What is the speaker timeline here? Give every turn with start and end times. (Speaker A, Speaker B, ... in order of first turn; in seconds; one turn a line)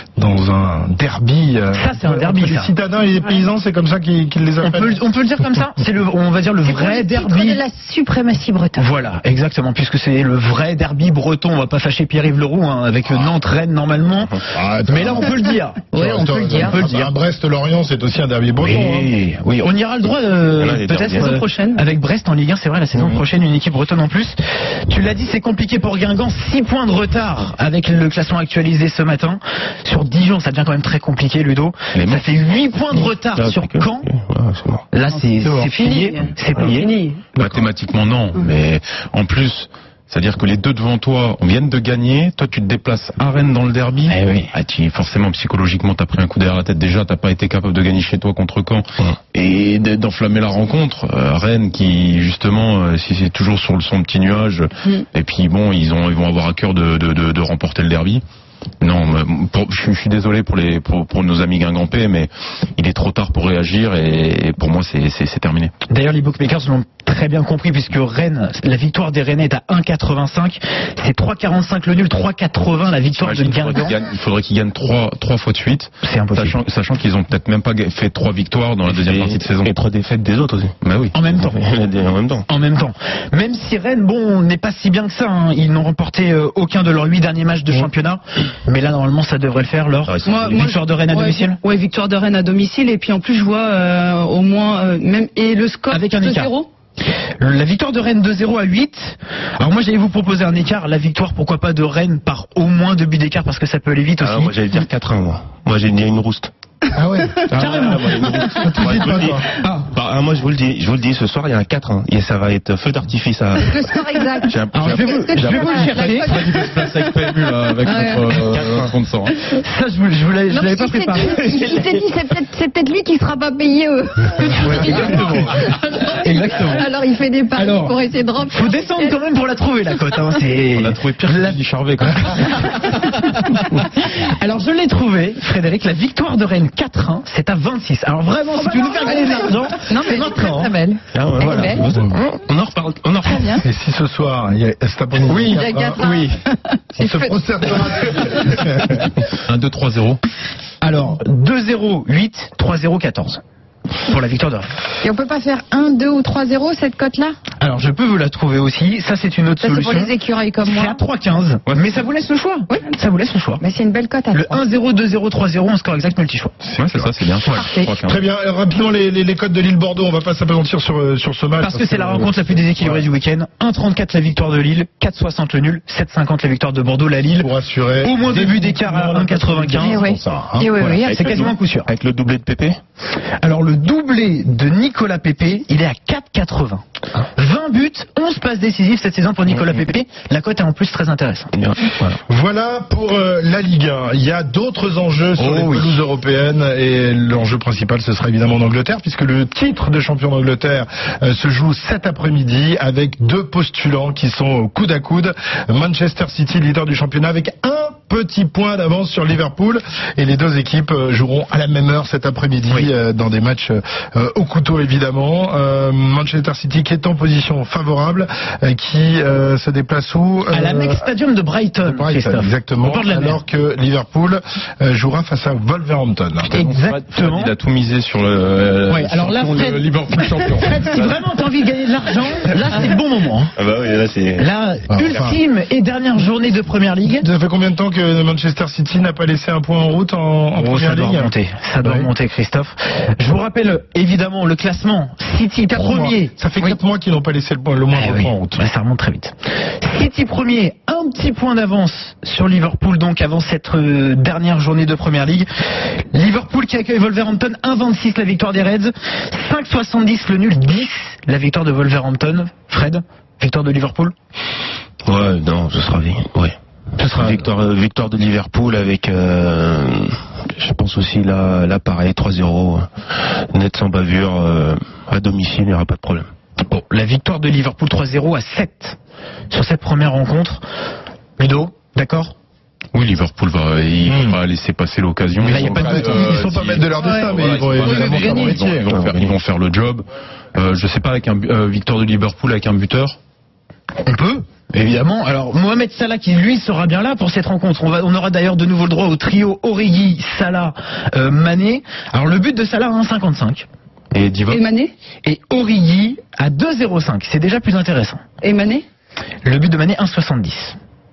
Speaker A: 0.2-5.0
Speaker B: 1.7-2.7
Speaker B: 4.6-7.6
Speaker C: 6.6-8.9
Speaker B: 8.8-14.3
Speaker A: 14.5-15.3
Speaker B: 14.8-15.9
Speaker C: 15.9-16.8
Speaker A: 15.9-19.1
Speaker B: 16.7-17.1
Speaker B: 18.6-34.1
Speaker D: 20.5-21.3
Speaker E: 21.2-21.8
Speaker D: 22.9-23.2
Speaker F: 31.9-32.4
Speaker D: 32.9-34.8
Speaker B: 34.9-36.8
Speaker E: 35.2-37.2
Speaker F: 37.4-58.2
Speaker A: 37.4-37.6
Speaker B: 44.1-44.5
Speaker F: 58.8-65.7
Speaker B: 65.9-73.9
Speaker F: 73.1-79.7
Speaker B: 76.0-76.6
Speaker D: 78.9-80.7
Speaker F: 80.8-81.1
Speaker B: 81.1-81.6
Speaker D: 81.3-82.4
Speaker B: 82.5-91.6
Speaker D: 90.1-90.7
Speaker E: 90.2-96.7
Speaker B: 95.9-96.5
Speaker B: 97.4-104.8
Speaker D: 104.2-106.5
Speaker A: 106.9-107.5
Speaker D: 107.5-115.8
Speaker B: 107.5-108.2
Speaker A: 108.4-109.5
Speaker B: 109.5-109.9
Speaker C: 113.7-118.4
Speaker B: 114.7-116.3
Speaker F: 116.0-119.4
Speaker D: 118.3-118.9
Speaker B: 119.5-121.9
Speaker C: 120.5-129.2
Speaker B: 124.5-125.6
Speaker A: 124.7-125.5
Speaker B: 126.2-126.8
Speaker B: 127.6-128.0
Speaker B: 128.5-131.6
Speaker F: 130.6-132.9
Speaker B: 132.1-140.7
Speaker C: 138.6-141.8
Speaker D: 141.1-143.4
Speaker A: 141.8-142.2
Speaker C: 143.2-143.6
Speaker A: 143.5-146.0
Speaker B: 145.2-146.4
Speaker C: 145.4-146.3
Speaker A: 147.0-149.2
Speaker C: 147.0-147.8
Speaker F: 149.4-150.2
Speaker B: 150.8-153.4
Speaker B: 154.1-154.8
Speaker C: 155.0-157.4
Speaker B: 157.6-163.6
Speaker C: 159.6-161.0
Speaker C: 163.6-164.6
Speaker B: 164.3-166.6
Speaker A: 166.6-167.2
Speaker F: 166.7-168.2
Speaker C: 167.5-167.9
Speaker A: 168.0-173.1
Speaker B: 171.6-180.0
Speaker A: 177.4-180.8
Speaker C: 179.8-181.1
Speaker B: 180.8-181.9
Speaker D: 181.0-182.8
Speaker B: 183.4-186.8
Speaker B: 187.3-191.5
Speaker D: 191.5-192.2
Speaker A: 192.3-221.1
Speaker B: 195.4-196.0
Speaker B: 220.5-223.4
Speaker A: 221.8-226.6
Speaker B: 226.5-227.5
Speaker F: 226.5-231.2
Speaker B: 228.9-233.5
Speaker D: 233.6-234.5
Speaker B: 234.4-237.3
Speaker A: 234.9-235.4
Speaker A: 237.1-242.1
Speaker B: 240.6-246.8
Speaker A: 245.7-248.6
Speaker B: 247.9-264.1
Speaker D: 265.0-266.5
Speaker B: 267.0-267.5
Speaker D: 267.1-276.3
Speaker B: 276.7-278.9
Speaker B: 279.5-280.6
Speaker B: 281.4-282.3
Speaker F: 282.9-290.0
Speaker A: 284.1-284.4
Speaker A: 285.4-288.9
Speaker B: 285.4-286.7
Speaker E: 287.0-287.3
Speaker E: 287.8-288.6
Speaker D: 288.7-289.3
Speaker F: 290.5-293.2
Speaker B: 294.0-303.6
Speaker F: 304.1-304.6
Speaker E: 304.5-304.9
Speaker B: 305.2-308.2
Speaker E: 308.4-308.8
Speaker B: 309.4-310.8